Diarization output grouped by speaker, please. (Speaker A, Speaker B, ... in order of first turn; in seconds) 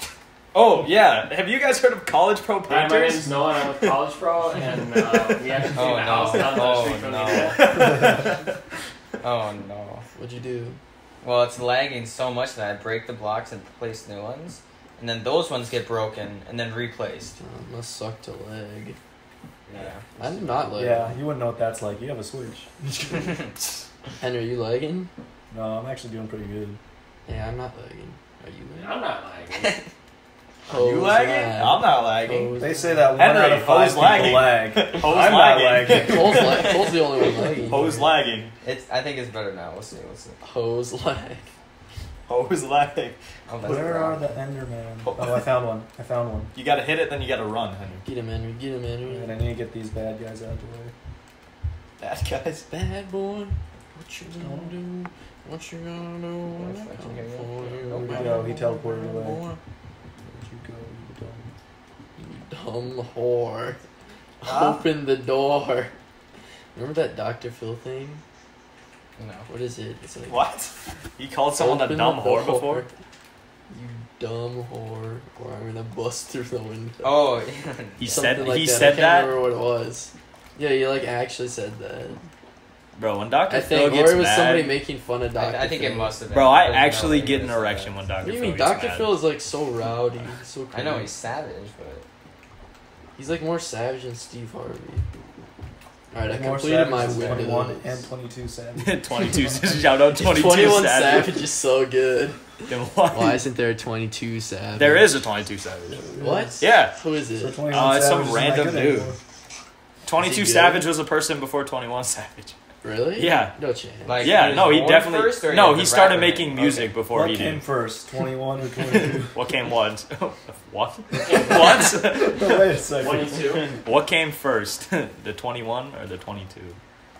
Speaker A: 0.5-3.4, 7.5-8.5, 23.2-23.8, 30.7-32.6, 33.2-36.8, 37.6-38.5, 42.3-43.2, 45.0-45.5, 46.5-48.0, 52.0-52.7, 64.4-64.8, 70.3-72.9, 78.0-79.4, 83.0-84.8, 86.3-89.2, 98.8-101.4, 102.7-103.4, 104.8-106.0, 106.6-107.0, 107.7-109.2, 110.0-112.5, 113.2-113.6, 114.2-117.7, 118.9-122.8, 123.7-126.8
Speaker B: 2.7-7.8, 19.7-20.7, 28.8-29.8, 121.2-121.9, 123.0-123.8
Speaker C: 5.8-7.6, 9.2-10.1, 11.2-17.4, 19.7-20.0, 29.5-29.9, 38.6-40.4, 43.5-44.3, 56.5-58.4, 69.2-69.5, 77.0-78.7, 85.3-88.0, 90.7-92.0, 114.0-116.9
Speaker D: 8.0-8.3, 20.8-23.3, 25.5-26.8, 32.6-38.1, 43.6-46.5, 49.1-50.9, 54.4-54.8, 57.9-59.4, 60.2-61.5, 96.2-99.8, 105.9-106.6, 107.4-109.2, 117.1-119.4, 122.0-123.8
Speaker E: 10.2-10.8, 17.4-19.0, 20.2-21.2, 24.2-25.1, 27.3-29.0, 30.7-33.1, 35.8-38.0, 40.4-41.5, 48.0-49.4, 52.7-59.6, 62.2-63.8, 64.4-65.9, 66.7-68.2, 69.5-70.4, 71.6-72.9, 73.7-77.2, 78.0-82.2, 83.5-86.2, 88.2-91.1, 93.2-95.0, 96.1-98.0, 99.5-105.2, 106.2-107.7, 110.2-110.9, 112.8-114.5